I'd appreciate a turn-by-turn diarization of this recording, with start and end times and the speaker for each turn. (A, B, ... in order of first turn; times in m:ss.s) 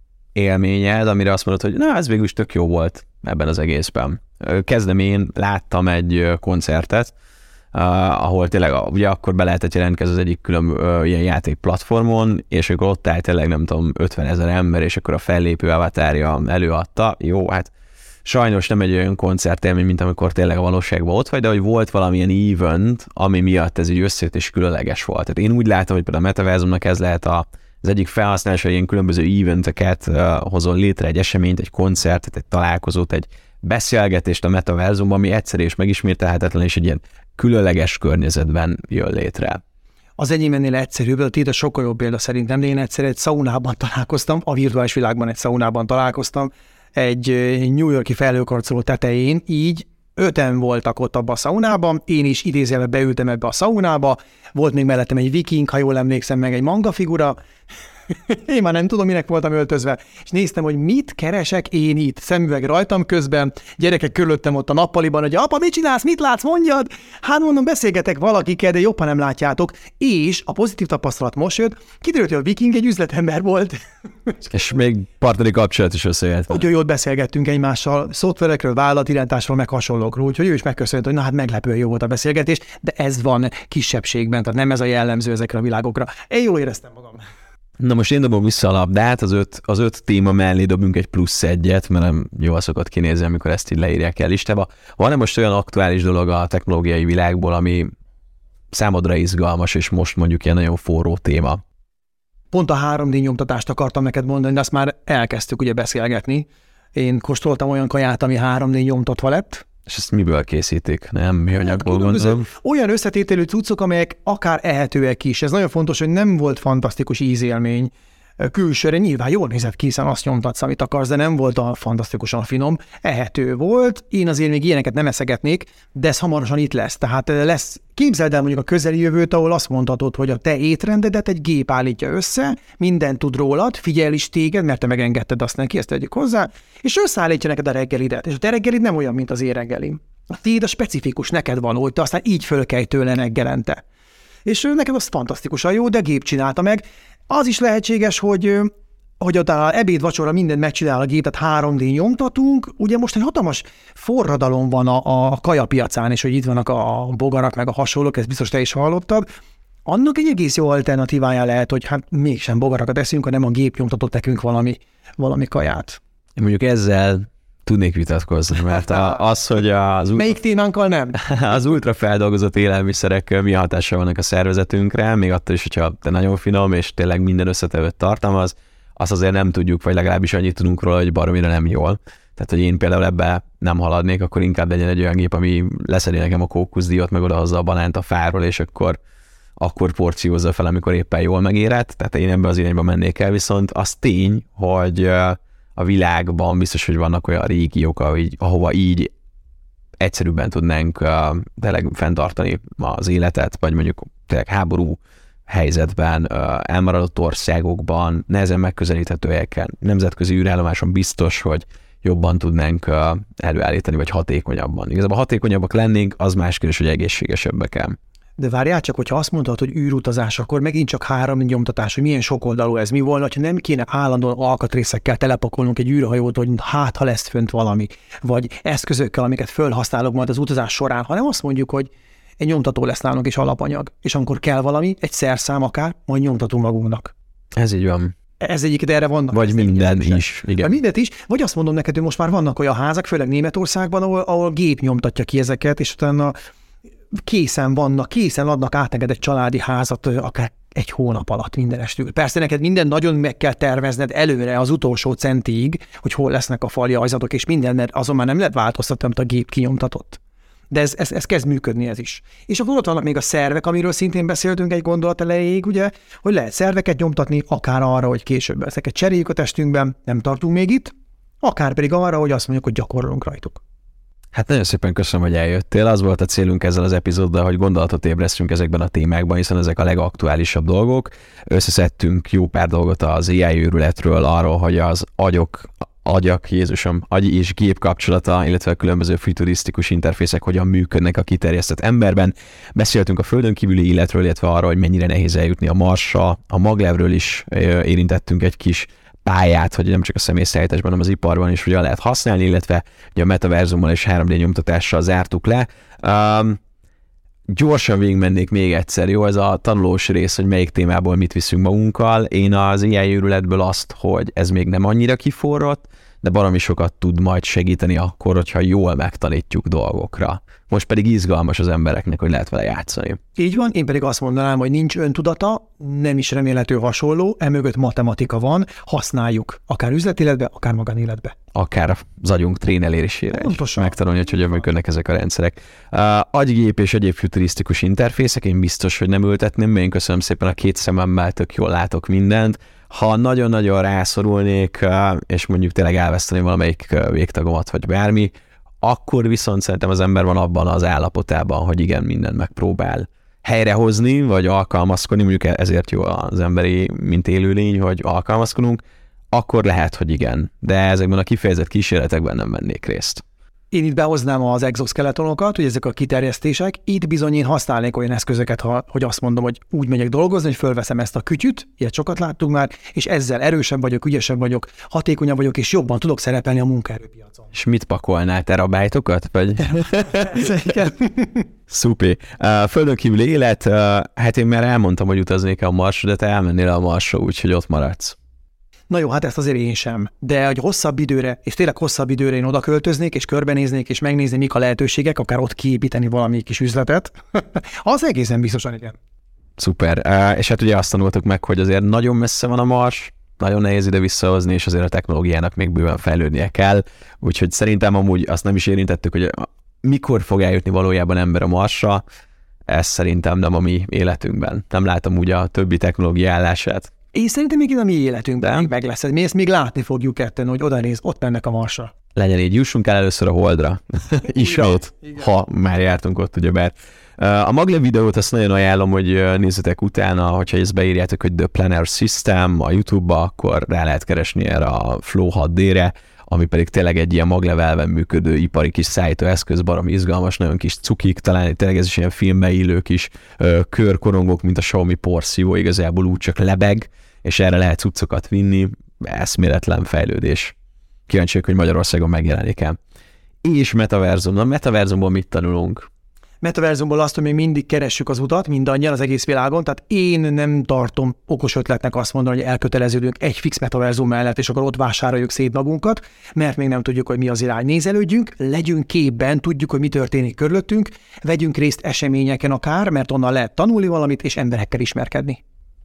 0:00.3-0:07.1 A
0:07.7-0:17.7 A
0:18.2-0:39.6 A
0:40.2-0:57.4 B
0:58.1-1:14.4 B
1:14.4-1:16.6 A
1:16.5-1:27.2 B
1:27.8-1:37.9 A
1:38.7-1:41.6 A
1:42.5-1:49.6 B
1:49.9-1:52.5 A
1:51.5-2:23.8 B
2:24.4-2:39.2 B
2:39.8-2:46.0 B
2:46.4-2:50.3 A
2:50.1-2:51.2 B
2:51.2-3:09.0 A
3:09.6-3:19.1 A
3:20.0-3:38.0 A
3:38.4-3:57.1 B
3:57.6-3:58.1 A
3:58.4-4:06.3 B
3:59.3-4:00.7 A
4:07.1-4:20.2 B
4:20.7-4:33.6 B
4:34.3-5:06.6 A
5:07.5-5:23.2 A
5:23.4-5:31.3 B
5:31.5-6:03.2 A
5:33.3-5:34.0 B
6:03.7-6:17.5 B
6:17.5-6:20.5 A
6:19.7-6:21.5 B
6:21.7-6:28.2 A
6:28.9-6:39.0 B
6:39.6-6:52.0 A
6:52.7-6:56.9 A
6:57.1-7:01.9 B
6:58.4-6:58.7 A
7:02.1-7:30.5 A
7:04.4-7:05.2 B
7:31.1-7:32.8 A
7:33.4-7:35.9 A
7:36.4-7:55.4 B